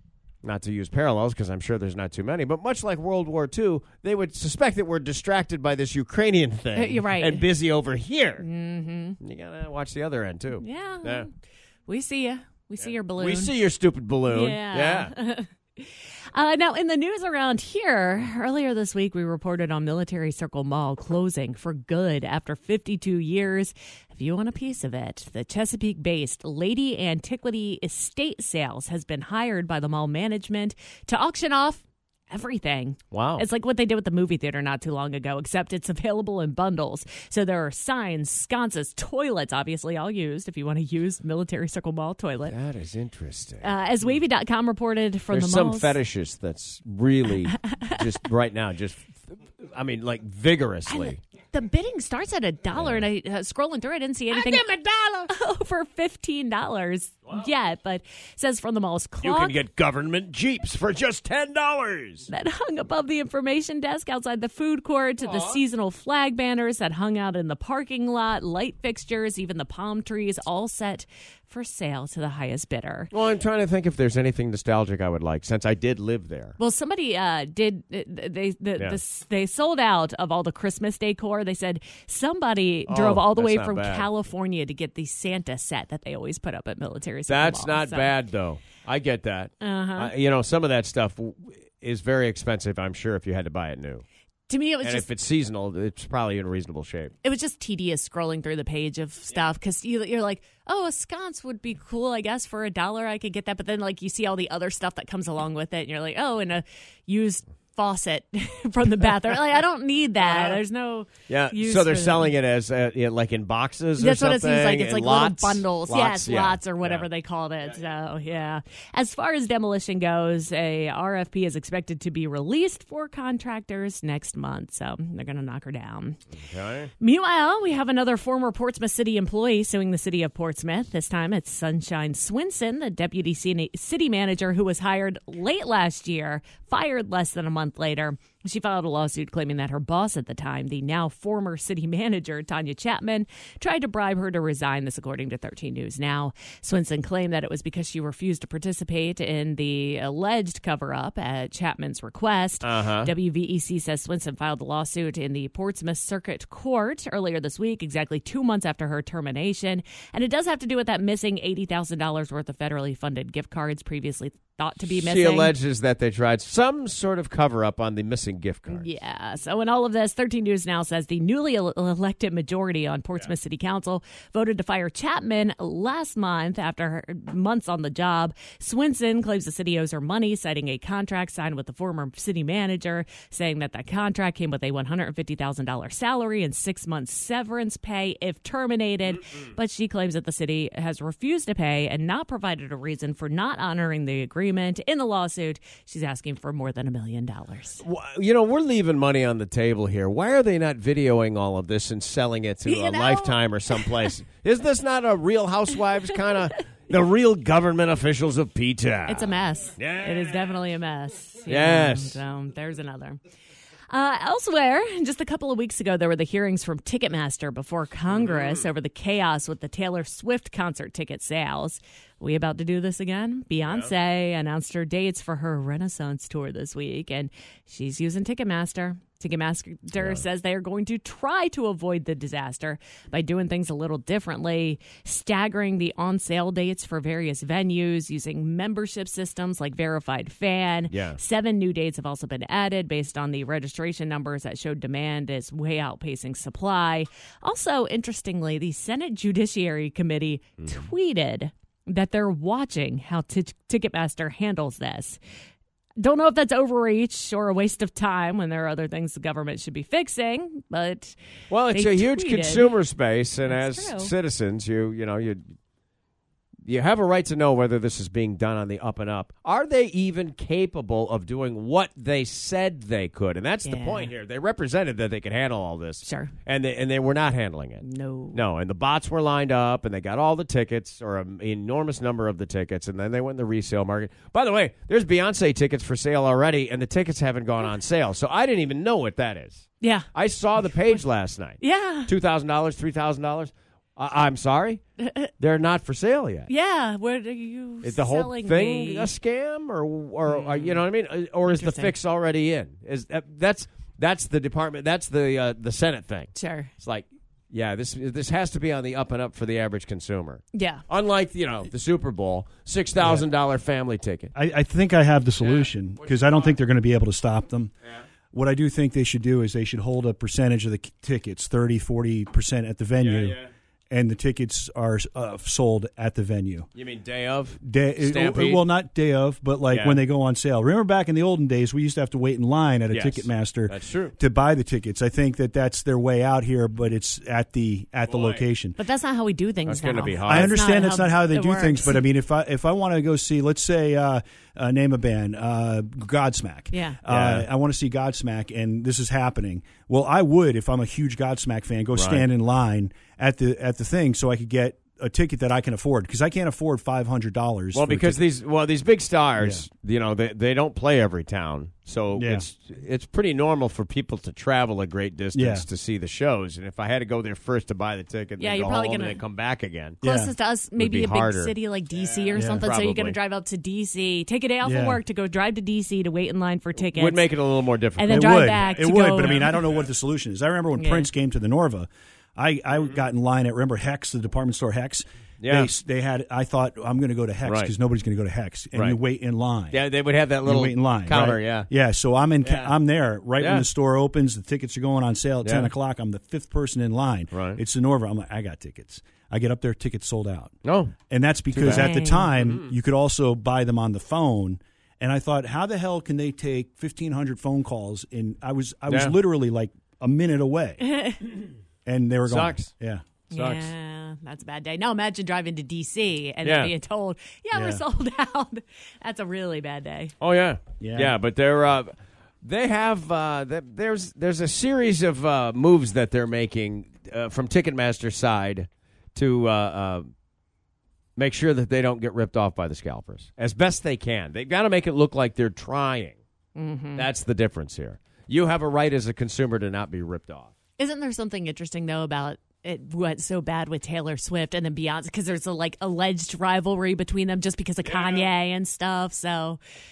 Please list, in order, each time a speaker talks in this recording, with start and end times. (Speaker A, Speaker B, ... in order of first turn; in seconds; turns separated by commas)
Speaker A: 0.4-8.4, Speaker B: 6.8-7.4, Speaker B: 8.4-9.2, Speaker A: 9.2-11.3, Speaker B: 10.6-11.3, Speaker B: 11.9-13.5, Speaker A: 12.8-15.1, Speaker B: 14.3-42.5, Speaker A: 33.1-33.5, Speaker A: 42.5-43.7, Speaker B: 43.6-46.0, Speaker A: 45.3-51.2, Speaker B: 47.6-48.0, Speaker B: 50.9-54.7, Speaker A: 52.8-53.0, Speaker A: 54.3-55.3, Speaker B: 55.3-59.5, Speaker A: 59.2-62.3, Speaker B: 62.3-73.1, Speaker A: 65.2-65.6, Speaker A: 73.1-76.6, Speaker B: 76.6-88.1, Speaker A: 82.9-84.1, Speaker A: 87.3-94.0, Speaker B: 89.6-90.1, Speaker B: 94.5-95.0, Speaker A: 94.8-97.1, Speaker B: 97.2-112.3, Speaker A: 110.2-110.6, Speaker A: 111.3-117.1, Speaker B: 114.0-126.2, Speaker A: 126.4-126.9, Speaker B: 127.0-165.6, Speaker A: 152.6-153.1, Speaker A: 164.9-168.9, Speaker B: 168.7-197.8, Speaker A: 197.8-210.5, Speaker B: 202.7-204.1, Speaker B: 209.1-213.2, Speaker A: 211.5-212.2, Speaker B: 213.9-255.2, Speaker A: 218.1-218.7, Speaker A: 223.7-223.9, Speaker A: 240.9-241.2, Speaker A: 250.6-250.8, Speaker B: 256.0-261.2, Speaker A: 261.5-265.4, Speaker B: 261.7-262.7, Speaker B: 263.4-264.1, Speaker A: 266.7-294.8, Speaker B: 273.6-274.1, Speaker B: 276.0-276.3, Speaker B: 277.8-278.4, Speaker B: 289.8-291.0, Speaker B: 291.6-292.1, Speaker B: 295.0-295.3, Speaker A: 295.4-296.5, Speaker B: 296.5-299.1, Speaker A: 297.8-314.3, Speaker B: 300.3-300.8, Speaker B: 301.5-301.9, Speaker B: 306.3-306.7, Speaker B: 310.5-310.9, Speaker C: 313.0-313.3, Speaker C: 314.3-317.7, Speaker A: 315.4-316.6, Speaker C: 318.3-323.4, Speaker A: 323.0-323.5, Speaker C: 323.9-326.7, Speaker A: 326.8-328.6, Speaker C: 327.6-338.8, Speaker A: 329.7-330.0, Speaker A: 332.9-334.1, Speaker A: 338.1-338.4, Speaker B: 338.8-342.0, Speaker A: 339.7-340.6, Speaker C: 340.3-358.2, Speaker B: 346.7-347.0, Speaker A: 347.1-347.5, Speaker A: 351.9-352.2, Speaker A: 357.7-370.0, Speaker C: 359.4-359.7, Speaker C: 362.1-362.4, Speaker C: 365.3-365.7, Speaker B: 368.4-369.2, Speaker C: 370.0-370.3, Speaker B: 370.0-377.3, Speaker A: 370.8-373.2, Speaker C: 372.3-372.6, Speaker C: 374.6-375.0, Speaker A: 376.8-379.9, Speaker B: 378.0-379.6, Speaker C: 378.1-389.8, Speaker B: 380.7-381.1, Speaker A: 382.8-383.0, Speaker A: 385.4-385.7, Speaker A: 387.4-387.7, Speaker A: 389.7-391.7, Speaker C: 390.4-400.5, Speaker A: 392.4-392.8, Speaker A: 393.4-393.7, Speaker A: 395.4-395.7, Speaker A: 397.3-397.6, Speaker A: 400.6-401.0, Speaker C: 401.1-410.9, Speaker A: 401.5-402.7, Speaker B: 401.7-402.3, Speaker A: 408.9-409.1, Speaker B: 410.8-411.3, Speaker C: 411.9-413.0, Speaker A: 412.3-412.7, Speaker B: 413.3-420.1, Speaker A: 413.3-413.7, Speaker A: 416.4-416.7, Speaker C: 417.5-417.8, Speaker A: 420.2-430.1, Speaker C: 420.8-421.2, Speaker A: 431.2-436.2, Speaker B: 436.6-437.1, Speaker A: 437.0-440.5, Speaker B: 440.8-449.6, Speaker A: 447.8-448.3